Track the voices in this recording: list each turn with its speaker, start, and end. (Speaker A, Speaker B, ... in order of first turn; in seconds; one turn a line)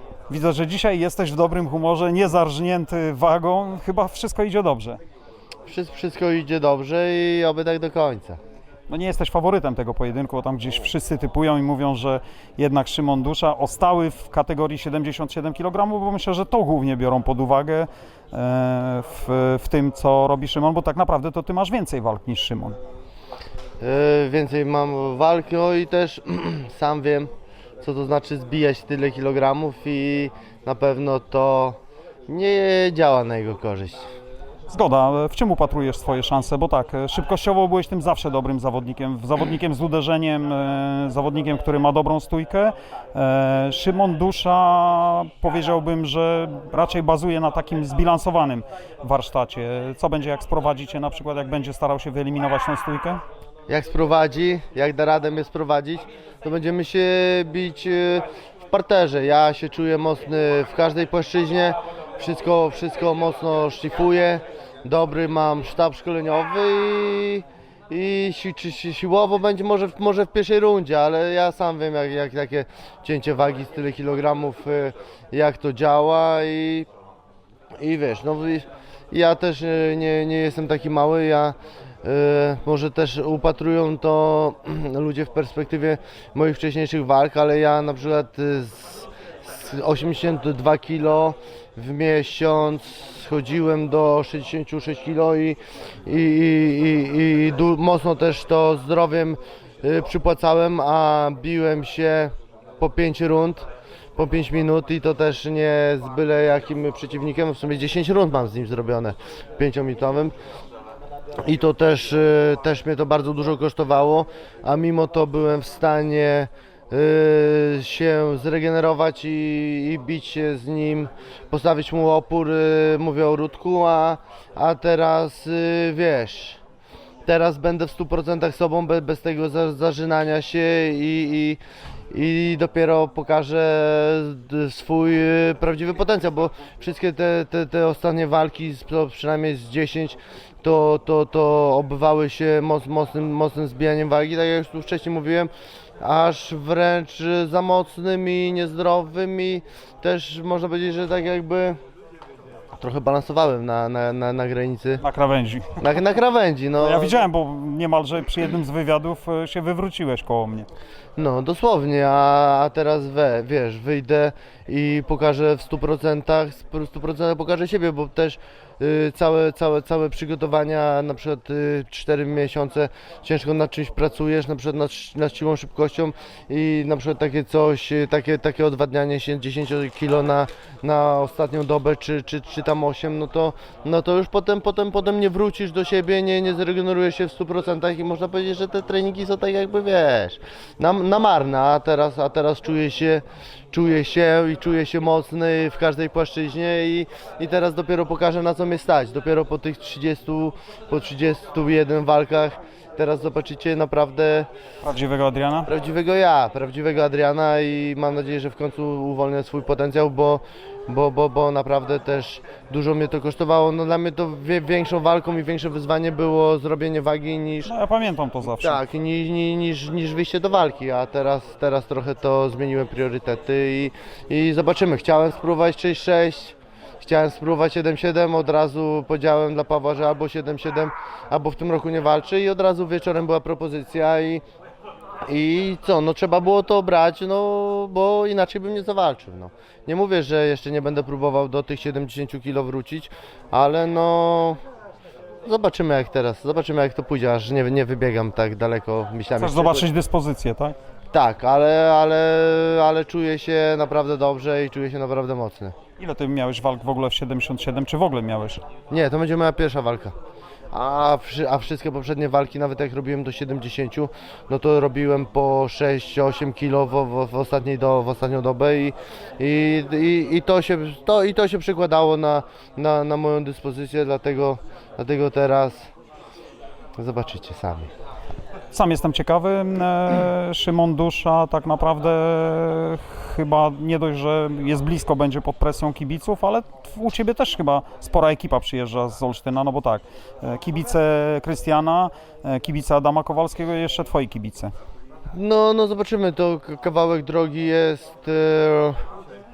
Speaker A: 0.3-5.0
Speaker B: 5.7-8.4
Speaker A: 8.9-22.8
Speaker B: 23.8-34.1
Speaker A: 34.7-53.2
Speaker B: 53.7-76.9
Speaker B: 77.8-110.3
Speaker B: 111.4-126.6
Speaker B: 127.2-151.8
Speaker B: 152.7-155.0
Speaker A: 155.0-155.8
Speaker B: 155.8-157.2
Speaker A: 156.8-160.7
Speaker B: 161.2-204.5
Speaker A: 204.8-205.7
Speaker B: 205.7-217.7
Speaker A: 217.6-218.8
Speaker B: 218.5-234.4
Speaker B: 235.2-244.6
Speaker B: 245.4-249.9
Speaker A: 249.4-250.8
Speaker B: 251.1-255.7
Speaker A: 256.0-258.6
Speaker B: 258.9-260.1
Speaker B: 260.7-275.9
Speaker B: 277.0-277.9
Speaker A: 278.7-294.7
Speaker B: 295.3-299.0